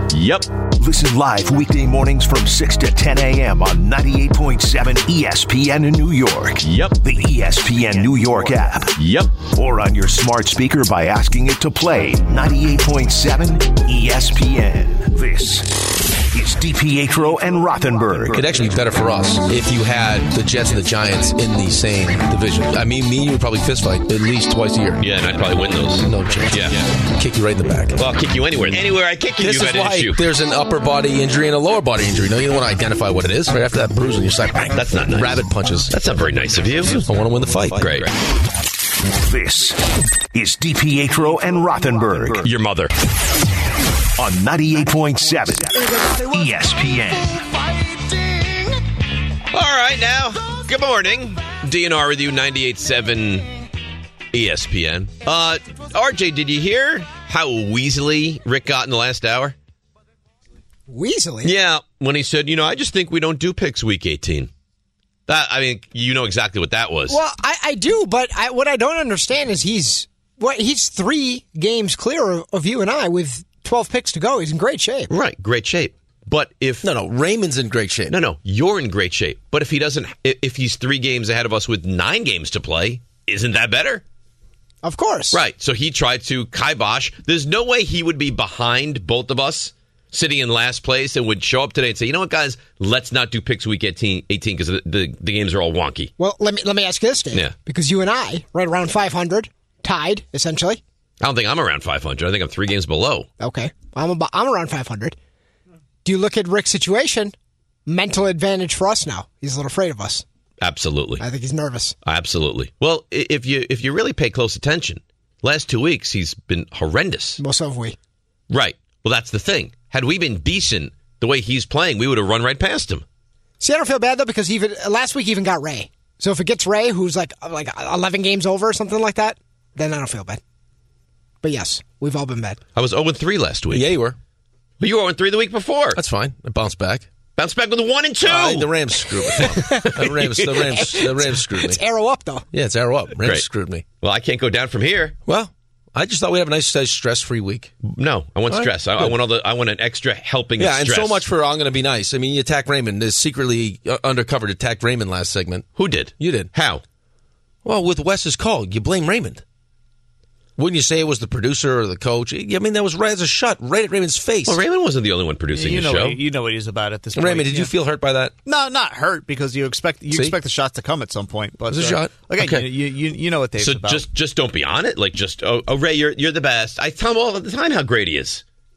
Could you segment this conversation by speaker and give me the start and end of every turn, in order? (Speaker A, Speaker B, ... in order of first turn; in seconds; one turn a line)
Speaker A: 0.1-0.5
Speaker B: 0.7-9.0
Speaker A: 6.6-6.9
Speaker A: 9.0-9.3
Speaker B: 9.5-18.5
Speaker C: 18.3-25.2
Speaker A: 25.0-26.9
Speaker C: 26.0-28.0
Speaker A: 28.0-30.2
Speaker C: 28.6-28.8
Speaker C: 29.4-35.9
Speaker A: 34.8-37.0
Speaker C: 36.9-38.1
Speaker A: 37.8-38.1
Speaker B: 39.2-42.5
Speaker A: 42.4-42.9
Speaker B: 44.2-47.5
Speaker A: 49.5-53.5
Speaker A: 54.3-59.5
Speaker D: 60.9-61.5
Speaker A: 61.4-64.5
Speaker A: 65.3-67.2
Speaker D: 67.1-75.1
Speaker A: 75.1-76.8
Speaker C: 76.8-78.2
Speaker A: 78.1-84.0
Speaker D: 84.8-85.4
Speaker A: 85.3-96.1
Speaker D: 96.2-100.8
Speaker A: 101.2-103.3
Speaker D: 103.4-105.2
Speaker D: 106.0-107.3
Speaker D: 107.8-110.2
Speaker A: 110.6-111.2
Speaker D: 111.2-111.9
Speaker A: 112.0-117.4
Speaker D: 117.4-118.0
Speaker A: 118.5-123.0
Speaker D: 123.6-130.4
Speaker D: 131.4-132.6
Speaker A: 132.8-133.9
Speaker C: 133.7-134.2
Speaker A: 134.8-136.0
Speaker C: 135.9-137.1
Speaker A: 137.3-141.1
Speaker C: 138.2-141.8
Speaker D: 139.3-140.0
Speaker D: 140.7-142.4
Speaker C: 142.5-143.8
Speaker A: 143.2-143.4
Speaker A: 144.0-145.2
Speaker C: 145.2-147.7
Speaker A: 147.8-151.2
Speaker C: 148.5-149.2
Speaker C: 150.6-155.7
Speaker A: 155.8-156.8
Speaker C: 156.2-156.5
Speaker C: 157.6-159.4
Speaker C: 160.6-164.6
Speaker A: 164.5-166.2
Speaker E: 165.5-167.7
Speaker C: 167.1-168.3
Speaker E: 168.4-174.1
Speaker C: 170.1-170.4
Speaker C: 171.7-172.7
Speaker A: 173.6-178.4